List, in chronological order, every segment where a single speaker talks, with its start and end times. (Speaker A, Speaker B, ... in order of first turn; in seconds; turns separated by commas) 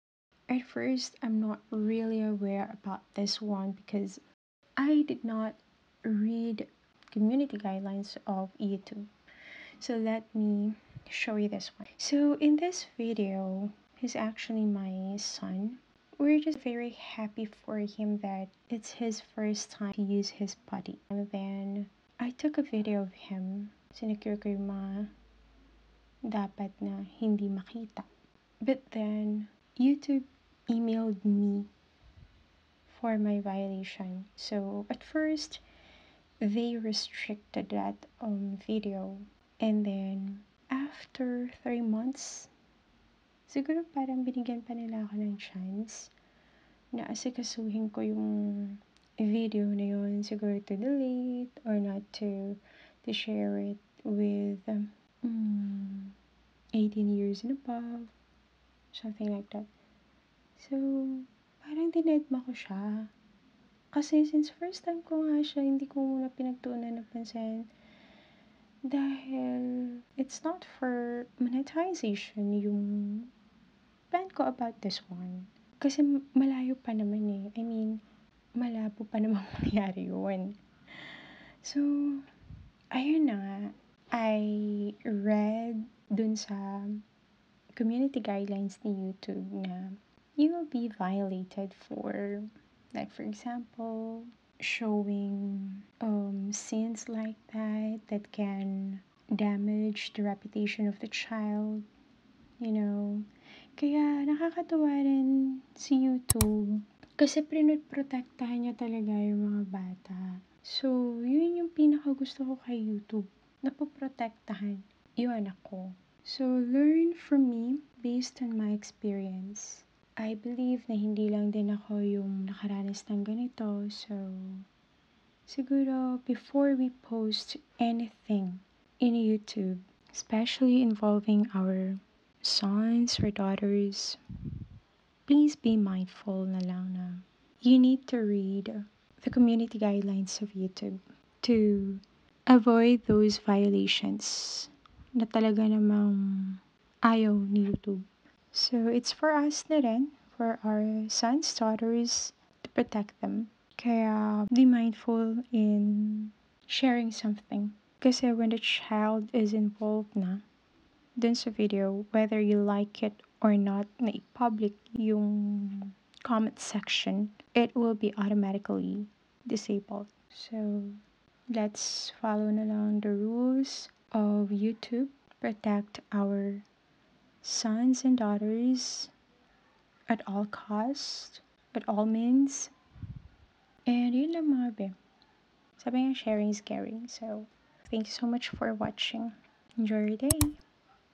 Speaker A: 0.5-4.2, Speaker A: 4.8-9.1, Speaker A: 9.8-25.1, Speaker A: 26.3-28.1, Speaker A: 28.6-31.7, Speaker A: 32.9-35.6, Speaker A: 36.4-42.5, Speaker A: 43.5-46.1, Speaker A: 46.9-56.1, Speaker A: 56.7-58.1, Speaker A: 58.9-59.7, Speaker A: 60.6-63.1, Speaker A: 63.9-67.7, Speaker A: 68.9-73.3, Speaker A: 74.1-78.0, Speaker A: 78.5-80.5, Speaker A: 81.6-82.2, Speaker A: 82.9-87.0, Speaker A: 87.8-101.8, Speaker A: 102.6-103.2, Speaker A: 103.8-124.6, Speaker A: 125.5-134.2, Speaker A: 135.3-160.4, Speaker A: 161.2-170.9, Speaker A: 171.5-176.6, Speaker A: 177.4-179.1, Speaker A: 180.1-182.7, Speaker A: 183.9-184.9, Speaker A: 185.8-190.6